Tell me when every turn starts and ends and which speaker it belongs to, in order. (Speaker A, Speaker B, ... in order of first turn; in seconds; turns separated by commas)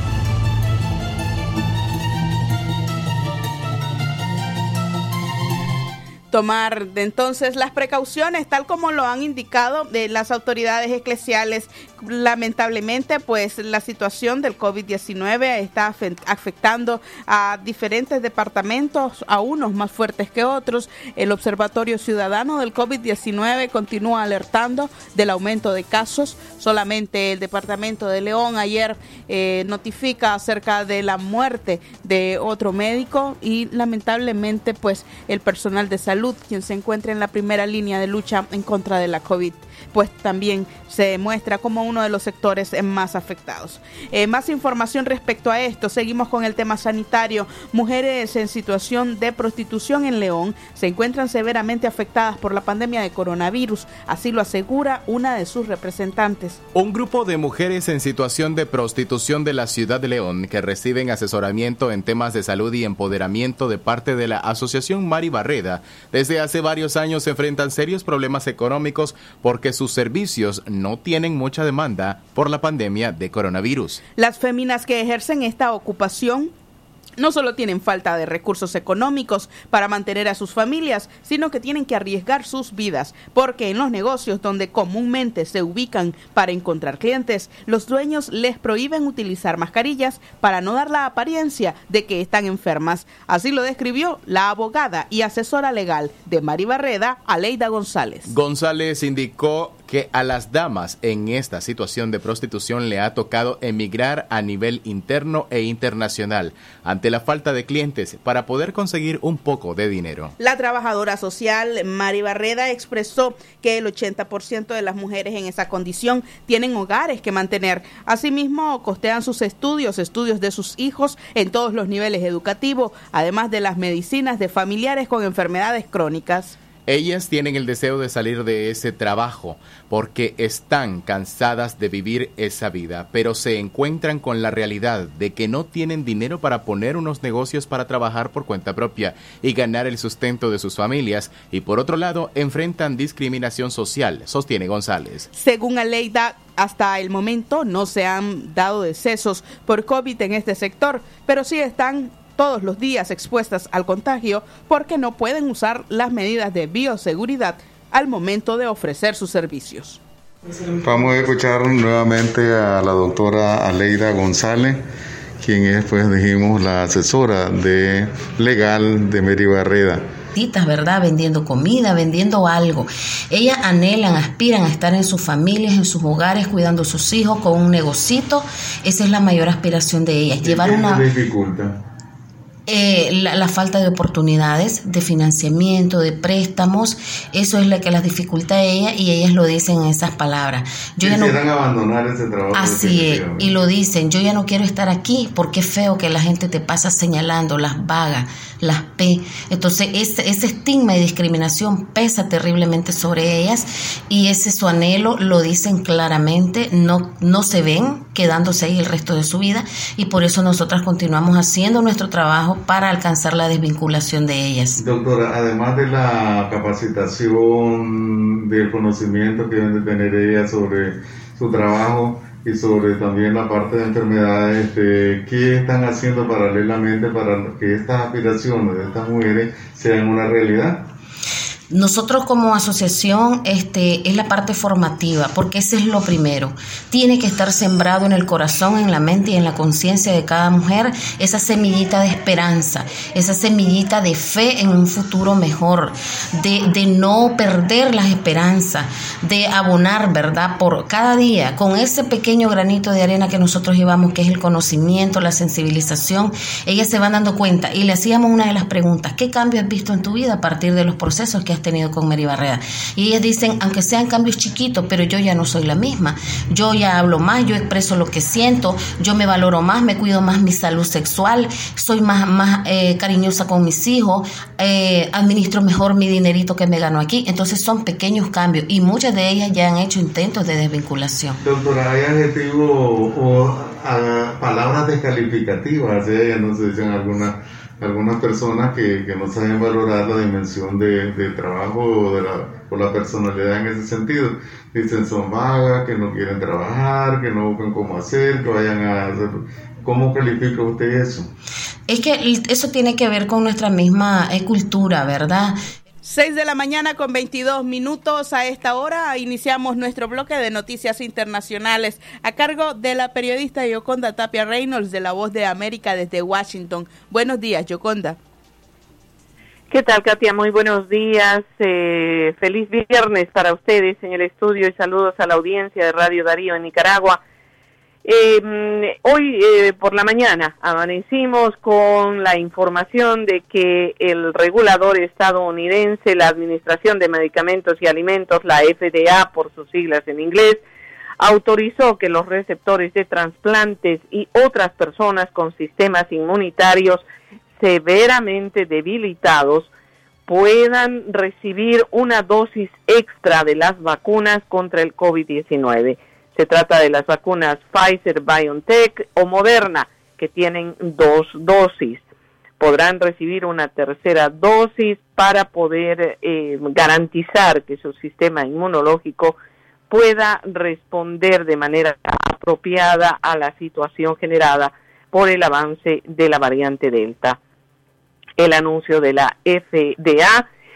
Speaker A: 6.3-56.6, Speaker B: 56.7-74.0, Speaker A: 74.2-76.5, Speaker A: 77.2-98.3, Speaker B: 98.3-110.3, Speaker A: 110.4-126.6, Speaker B: 126.8-145.3, Speaker A: 145.3-160.0, Speaker C: 160.8-164.8, Speaker C: 165.4-170.0, Speaker D: 170.3-181.0, Speaker C: 180.4-181.8, Speaker D: 182.7-191.4, Speaker C: 191.0-193.6, Speaker D: 192.5-214.8, Speaker C: 214.8-230.9, Speaker D: 231.7-281.4, Speaker C: 281.4-301.3, Speaker D: 301.9-305.5, Speaker A: 306.0-318.2, Speaker E: 319.7-327.2, Speaker E: 328.0-340.6, Speaker E: 341.2-347.0, Speaker E: 347.6-349.7, Speaker E: 350.3-362.0, Speaker E: 362.6-369.4, Speaker E: 369.9-377.4, Speaker E: 378.4-380.4